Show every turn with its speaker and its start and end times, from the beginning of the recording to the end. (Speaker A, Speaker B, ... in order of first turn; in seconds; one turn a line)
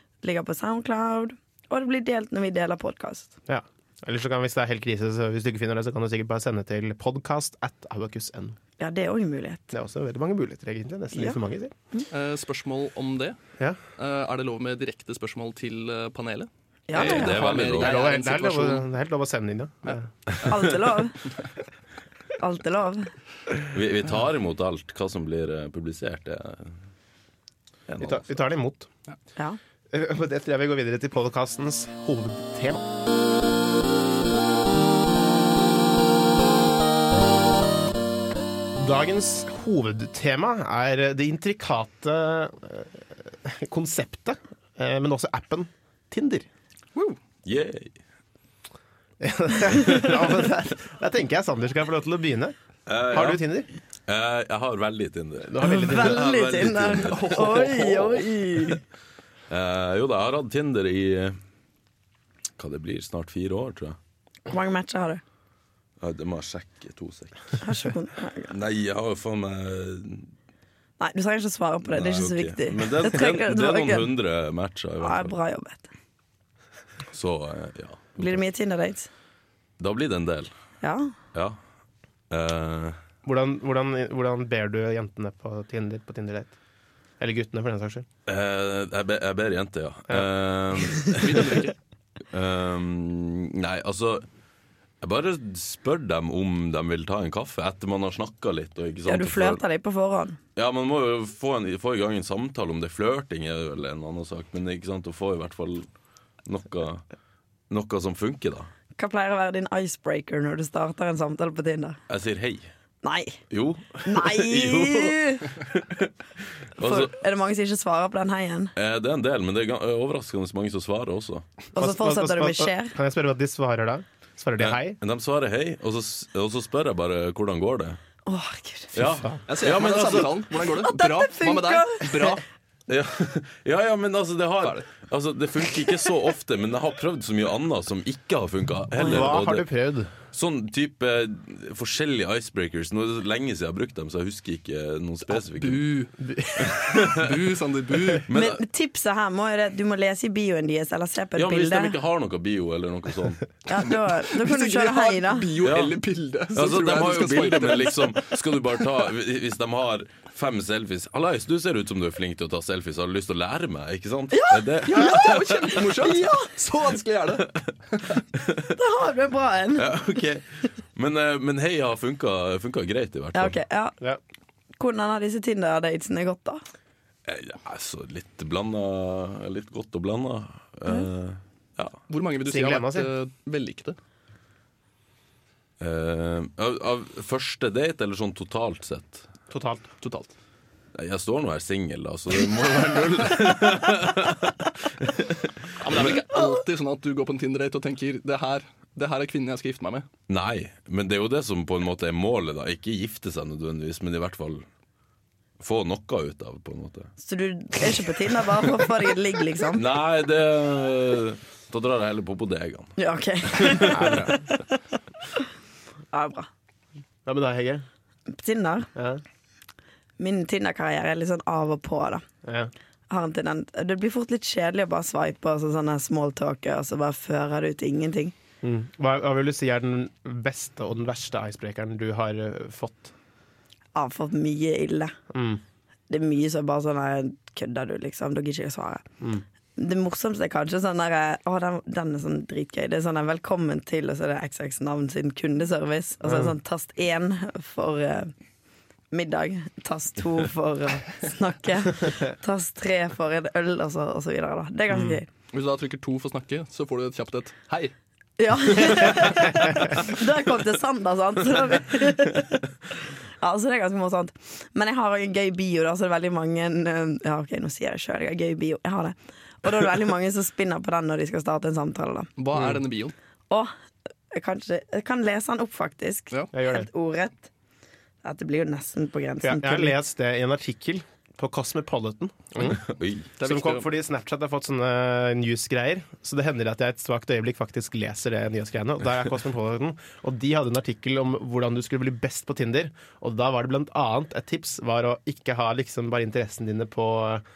Speaker A: 0.2-3.3
Speaker B: 3.5-8.6
Speaker A: 8.8-9.7
Speaker B: 9.7-11.7
Speaker C: 12.1-13.4
Speaker C: 14.0-18.9
Speaker A: 16.9-17.5
Speaker D: 16.9-18.0
Speaker B: 17.7-20.1
Speaker A: 20.5-21.2
Speaker A: 22.4-23.1
Speaker D: 23.7-26.8
Speaker D: 27.9-28.2
Speaker B: 28.0-28.9
Speaker B: 29.9-32.8
Speaker B: 38.8-46.5
Speaker D: 47.5-48.0
Speaker B: 49.2-52.5
Speaker D: 52.9-53.4
Speaker B: 53.1-53.7
Speaker D: 54.1-58.2
Speaker B: 55.5-56.3
Speaker A: 55.6-58.8
Speaker C: 57.1-58.2
Speaker D: 59.5-61.4
Speaker D: 62.6-64.0
Speaker A: 64.5-65.2
Speaker D: 66.0-67.6
Speaker A: 67.6-68.5
Speaker D: 68.5-70.3
Speaker A: 71.0-74.1
Speaker D: 71.9-75.3
Speaker A: 75.0-75.9
Speaker D: 77.1-78.4
Speaker A: 78.2-79.1
Speaker D: 79.8-80.5
Speaker A: 80.8-81.1
Speaker D: 82.3-83.0
Speaker B: 83.2-86.5
Speaker B: 87.2-88.1
Speaker D: 88.3-91.7
Speaker C: 91.1-91.8
Speaker D: 92.3-94.3
Speaker D: 95.0-99.6
Speaker A: 99.1-100.4
Speaker D: 100.6-105.9
Speaker D: 106.5-107.0
Speaker D: 107.7-108.7
Speaker A: 109.0-112.0
Speaker D: 112.1-112.7
Speaker A: 113.0-113.4
Speaker D: 113.5-116.1
Speaker A: 114.0-115.6
Speaker D: 116.6-117.1
Speaker A: 116.8-118.7
Speaker D: 118.8-121.5
Speaker A: 121.8-122.9
Speaker B: 121.8-125.0
Speaker D: 124.6-128.0
Speaker A: 128.3-129.0
Speaker D: 128.9-130.4
Speaker B: 129.0-129.4
Speaker C: 129.5-132.4
Speaker A: 130.7-132.4
Speaker D: 132.9-139.7
Speaker B: 139.0-140.1
Speaker D: 140.3-145.9
Speaker C: 145.3-146.1
Speaker B: 146.2-147.0
Speaker D: 146.6-147.3
Speaker C: 146.7-148.3
Speaker D: 148.3-148.6
Speaker A: 148.3-151.9
Speaker D: 151.4-153.5
Speaker A: 153.7-155.6
Speaker C: 154.3-158.4
Speaker D: 155.6-156.0
Speaker D: 156.6-165.9
Speaker A: 164.3-166.5
Speaker C: 164.9-167.5
Speaker D: 168.3-168.7
Speaker A: 168.7-170.0
Speaker D: 169.8-173.6
Speaker A: 173.3-174.0
Speaker A: 174.8-176.6
Speaker D: 177.3-182.0
Speaker C: 182.1-184.0
Speaker B: 182.4-183.1
Speaker D: 185.8-189.3
Speaker B: 189.5-189.9
Speaker C: 190.0-190.3
Speaker D: 190.9-196.2
Speaker C: 195.8-200.1
Speaker D: 200.3-204.7
Speaker D: 205.6-207.1
Speaker A: 207.2-209.8
Speaker D: 209.7-212.9
Speaker A: 213.0-214.8
Speaker D: 213.5-214.1
Speaker B: 213.9-214.4
Speaker A: 216.1-216.5
Speaker B: 217.3-217.8
Speaker A: 218.3-218.9
Speaker B: 218.9-219.2
Speaker A: 220.2-222.2
Speaker B: 222.4-222.7
Speaker A: 223.1-228.3
Speaker B: 228.6-233.1
Speaker A: 233.9-235.2
Speaker B: 235.3-235.6
Speaker A: 236.1-239.0
Speaker A: 239.8-248.3
Speaker B: 246.3-246.5
Speaker A: 249.1-255.3
Speaker B: 254.9-255.2
Speaker C: 255.5-257.9
Speaker A: 258.4-262.6
Speaker C: 258.8-259.2
Speaker A: 263.4-272.3
Speaker C: 272.4-273.1
Speaker A: 274.3-277.5
Speaker B: 276.5-276.9
Speaker A: 278.2-280.0
Speaker B: 279.4-282.8
Speaker D: 282.7-283.3
Speaker C: 283.4-283.9
Speaker B: 283.4-297.4